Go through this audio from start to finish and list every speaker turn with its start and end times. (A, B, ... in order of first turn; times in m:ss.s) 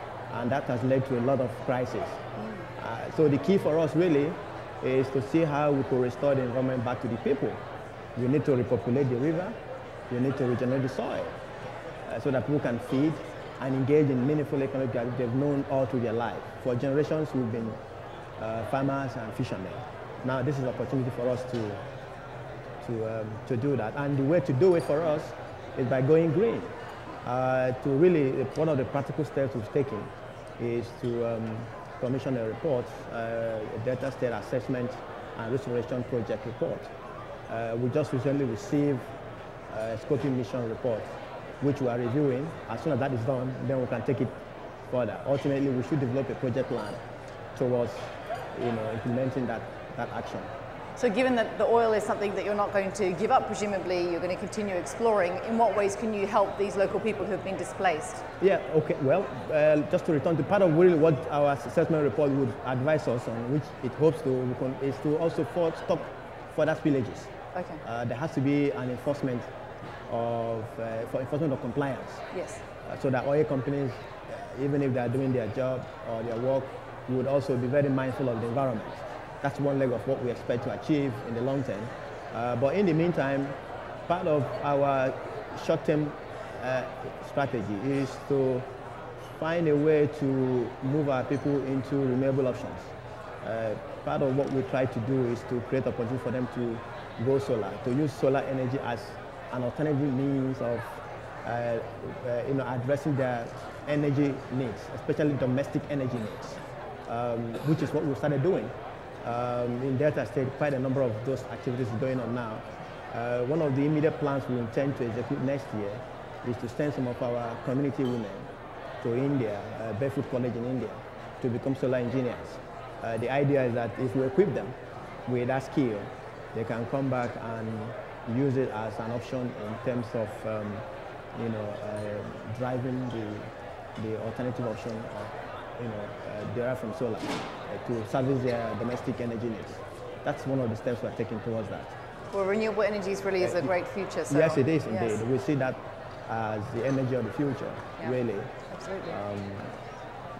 0:00.3-0:02.2 A
0:02.8-0:07.6 A
0:08.2-0:09.6 A
0:10.1-0:11.4 A
0:12.1-0:17.8 A
0:18.4-0:21.8 A
0:22.8-0:26.7 A
0:27.2-0:36.9 A
0:37.5-0:39.1 A
0:39.7-0:41.1 A
0:41.6-0:44.3 A
0:44.9-0:47.0 A
0:47.6-0:50.5 A
0:51.0-0:58.2 B
0:58.4-1:07.3 A
1:07.6-1:07.8 B
1:07.8-1:09.5 A
1:10.1-1:12.2 A
1:12.3-1:12.6 B
1:12.8-1:23.6 A
1:24.1-1:28.7 A
1:29.4-1:58.5 A
1:59.0-2:22.0 A
2:22.3-2:25.2 B
2:23.4-2:23.7 A
2:24.3-2:29.8 A
2:28.7-2:29.2 B